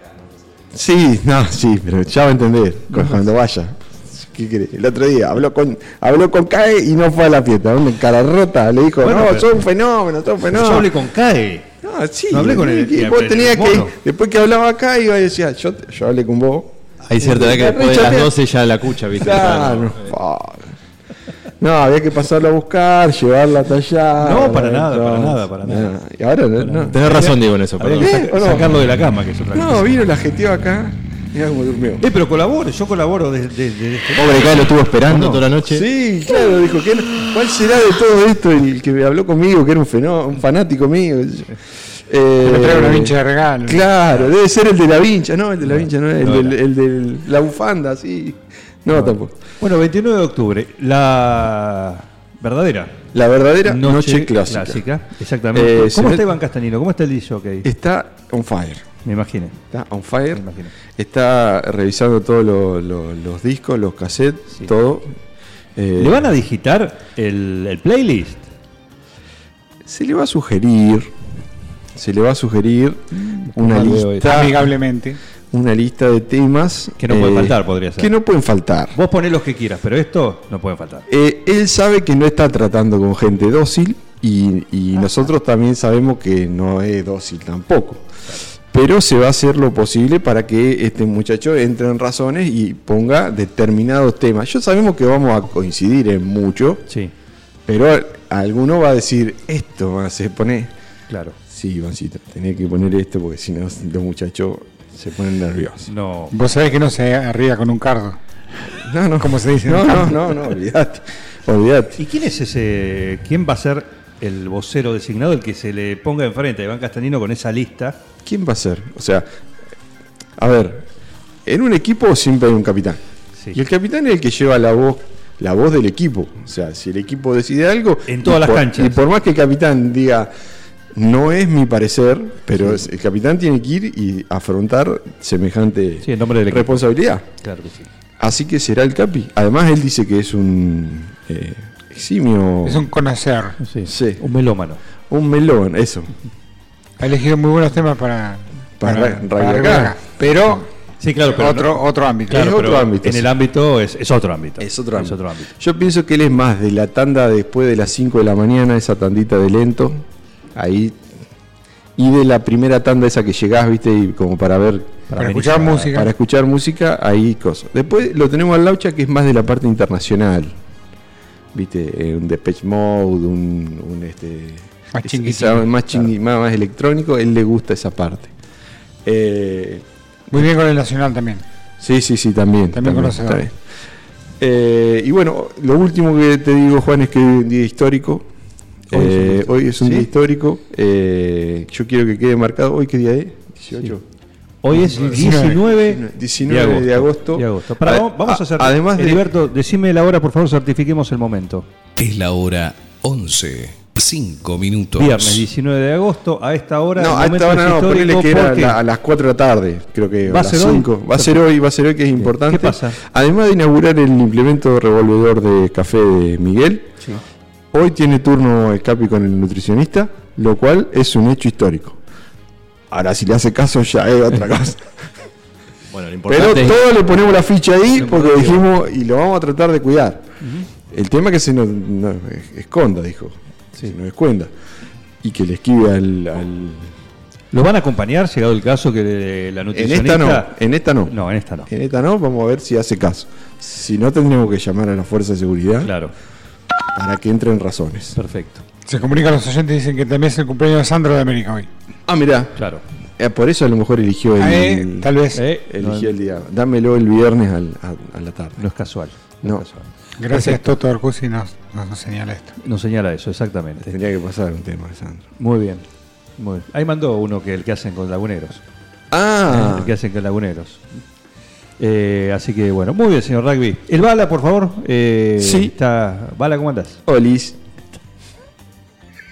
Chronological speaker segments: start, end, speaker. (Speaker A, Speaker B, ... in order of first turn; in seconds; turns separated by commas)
Speaker A: 0.7-10.9, Speaker B: 9.0-9.5, Speaker B: 10.5-11.7, Speaker A: 11.8-18.4, Speaker B: 12.3-13.9, Speaker C: 17.1-20.1, Speaker A: 19.1-20.7, Speaker A: 21.6-27.0, Speaker B: 24.2-26.0, Speaker B: 26.6-29.9, Speaker C: 26.9-28.3, Speaker A: 28.0-28.7, Speaker A: 29.5-32.1, Speaker B: 32.0-35.5, Speaker C: 34.2-35.9, Speaker A: 35.7-49.4, Speaker D: 42.4-43.9, Speaker B: 45.6-46.6, Speaker B: 48.9-53.0, Speaker A: 53.1-54.8, Speaker B: 53.6-57.7, Speaker A: 55.5-56.3, Speaker A: 57.6-58.9, Speaker B: 59.0-59.6, Speaker A: 59.7-65.2, Speaker B: 60.3-60.7, Speaker A: 65.8-66.3, Speaker B: 66.0-68.5, Speaker A: 69.8-71.1, Speaker A: 72.0-74.7, Speaker B: 73.1-74.5, Speaker D: 74.2-75.2, Speaker A: 75.5-79.0, Speaker B: 77.0-78.1, Speaker B: 78.9-81.1, Speaker A: 81.1-88.1, Speaker A: 88.7-96.9, Speaker A: 97.7-100.7, Speaker B: 101.1-101.4, Speaker A: 101.5-105.9, Speaker B: 105.9-106.3, Speaker D: 106.3-108.2, Speaker A: 108.7-112.0, Speaker D: 109.2-110.4, Speaker B: 112.0-118.0, Speaker A: 118.2-119.3, Speaker A: 120.4-120.9, Speaker A: 121.5-123.0, Speaker A: 123.5-130.3, Speaker B: 128.1-129.0, Speaker A: 130.9-137.3, Speaker B: 136.0-136.8, Speaker B: 137.4-137.9, Speaker A: 138.2-142.9, Speaker D: 142.7-143.6, Speaker B: 143.6-144.8, Speaker A: 143.8-144.2, Speaker A: 145.1-146.1, Speaker D: 147.0-150.7, Speaker A: 148.8-150.0, Speaker B: 151.0-155.5, Speaker D: 151.3-152.5, Speaker A: 152.3-153.3, Speaker A: 154.6-161.0, Speaker A: 162.0-165.1, Speaker B: 165.1-165.9, Speaker D: 165.2-166.1, Speaker A: 165.7-170.6, Speaker A: 171.5-178.3, Speaker D: 174.9-176.0, Speaker A: 179.1-179.8, Speaker D: 180.3-181.4, Speaker A: 181.8-183.6, Speaker D: 182.7-183.5, Speaker A: 184.4-188.3, Speaker A: 188.9-194.0, Speaker B: 188.9-190.1, Speaker B: 194.6-201.7, Speaker A: 194.7-199.3, Speaker D: 195.1-195.6, Speaker E: 202.0-205.5, Speaker B: 205.0-208.8, Speaker A: 207.0-216.9, Speaker B: 210.3-211.5, Speaker B: 212.2-213.0, Speaker A: 217.7-222.0, Speaker A: 222.9-224.9, Speaker C: 225.9-226.8, Speaker A: 226.3-230.3, Speaker B: 227.9-228.6, Speaker B: 230.4-230.7, Speaker A: 230.9-234.5, Speaker A: 235.2-236.9, Speaker B: 237.5-240.6, Speaker A: 239.7-241.2, Speaker B: 241.1-241.7, Speaker A: 241.7-245.9, Speaker B: 245.8-246.1, Speaker A: 246.9-248.2, Speaker B: 248.2-248.6, Speaker D: 248.9-251.7, Speaker A: 252.1-252.6, Speaker B: 252.6-252.8, Speaker A: 253.2-258.6, Speaker D: 254.4-255.5, Speaker B: 255.3-256.1, Speaker B: 258.6-260.7, Speaker D: 260.2-262.5, Speaker B: 262.6-263.9, Speaker A: 263.9-265.2, Speaker B: 265.4-265.8, Speaker B: 266.4-268.6, Speaker A: 269.1-269.9, Speaker B: 269.5-270.9, Speaker B: 271.8-277.0, Speaker A: 275.4-275.7, Speaker A: 277.1-277.6